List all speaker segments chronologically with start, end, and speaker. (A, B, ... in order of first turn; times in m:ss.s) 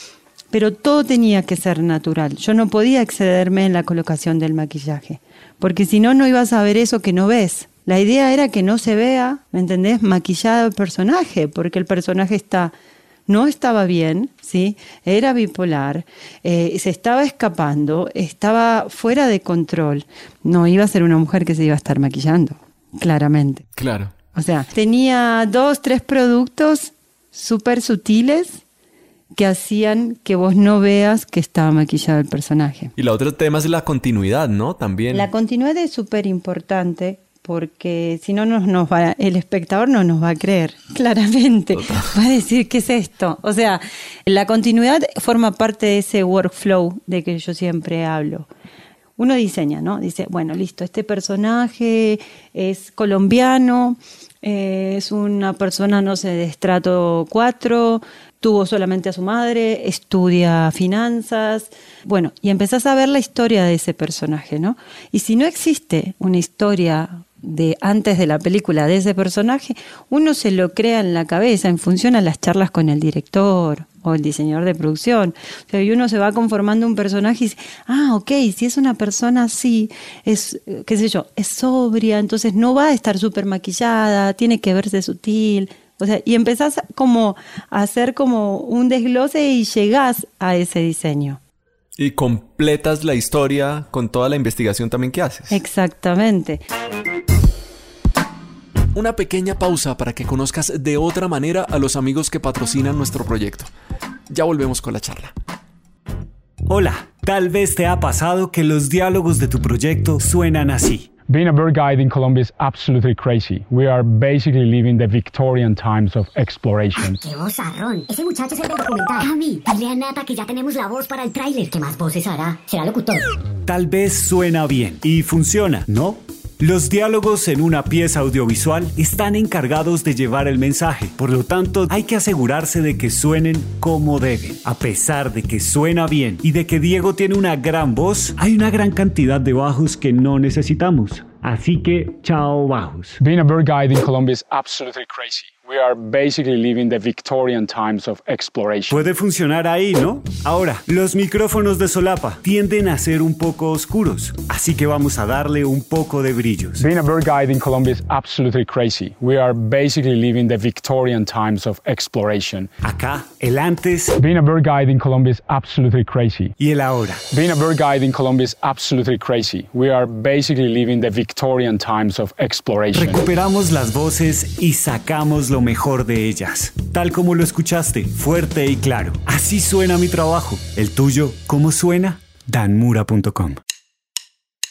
0:00.5-0:12.7 A
0:13.3-0:23.6 A
0:23.8-0:24.1 B
0:24.3-0:28.6 A
0:29.3-0:32.9 A
0:33.0-0:35.3 B
0:35.1-0:48.5 A
0:49.2-1:31.4 A
1:32.0-1:35.6 B
1:35.5-1:36.6 A
1:39.0-1:43.7 B
1:44.3-1:45.3 B
1:46.7-1:51.1 C
1:51.3-1:57.2 D
1:57.2-2:03.3 E
2:03.7-2:23.2 C
2:23.2-2:29.0 D
2:28.9-2:36.9 C
2:36.8-2:42.7 D
2:42.8-2:44.2 C
2:44.2-2:46.6 D
2:46.6-2:47.3 C
2:47.3-2:53.2 D
2:52.9-3:03.6 C